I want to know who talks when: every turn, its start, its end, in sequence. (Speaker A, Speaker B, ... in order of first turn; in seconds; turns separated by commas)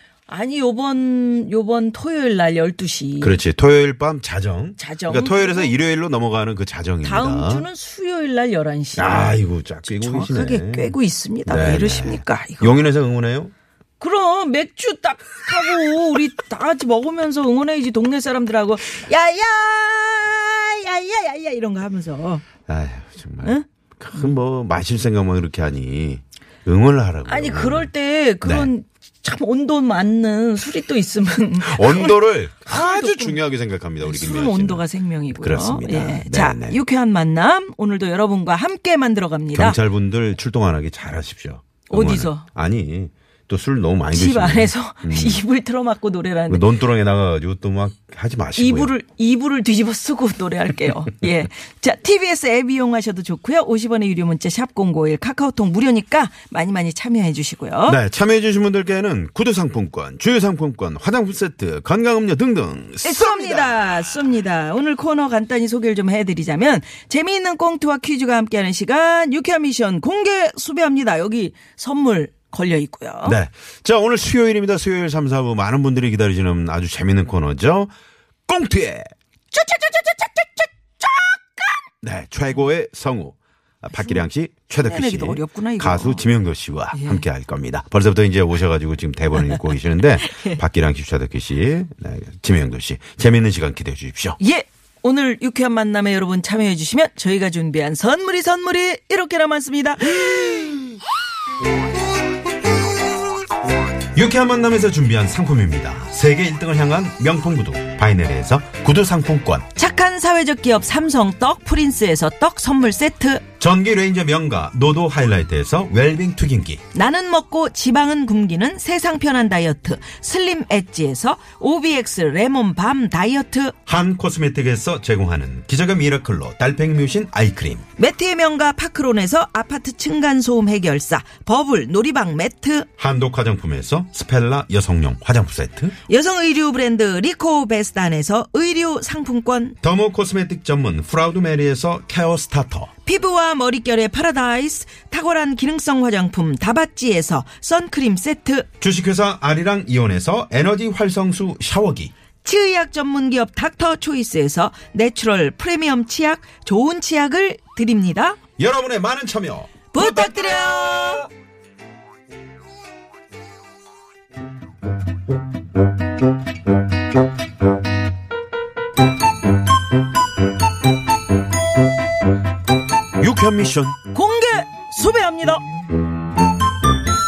Speaker A: 0.3-3.4, Speaker B: 3.2-7.7, Speaker A: 4.8-5.7, Speaker A: 7.0-12.8, Speaker B: 8.9-10.9, Speaker B: 11.4-13.5, Speaker A: 14.0-22.4, Speaker B: 22.7-27.9, Speaker A: 27.2-33.4, Speaker B: 28.4-28.7, Speaker B: 31.6-36.8, Speaker A: 34.0-39.8, Speaker B: 39.5-45.4, Speaker A: 41.9-42.5, Speaker A: 44.1-46.7, Speaker B: 46.5-48.9, Speaker A: 48.5-58.0, Speaker B: 57.9-64.1, Speaker A: 63.0-73.4, Speaker B: 73.2-77.9, Speaker B: 78.5-79.1, Speaker A: 79.5-81.8, Speaker B: 82.0-94.4, Speaker A: 84.8-86.3, Speaker A: 86.9-87.2, Speaker A: 90.2-90.6, Speaker A: 94.4-100.3, Speaker B: 104.1-109.7, Speaker A: 109.7-113.4, Speaker B: 113.6-116.8, Speaker A: 116.9-123.8, Speaker B: 123.9-127.8, Speaker A: 128.0-132.9, Speaker B: 133.0-135.9, Speaker A: 136.1-139.8, Speaker B: 139.8-142.9, Speaker A: 143.0-148.7, Speaker B: 148.8-152.1, Speaker A: 152.4-158.4, Speaker B: 158.6-161.2, Speaker A: 159.9-161.3, Speaker B: 173.2-174.0, Speaker A: 174.1-175.6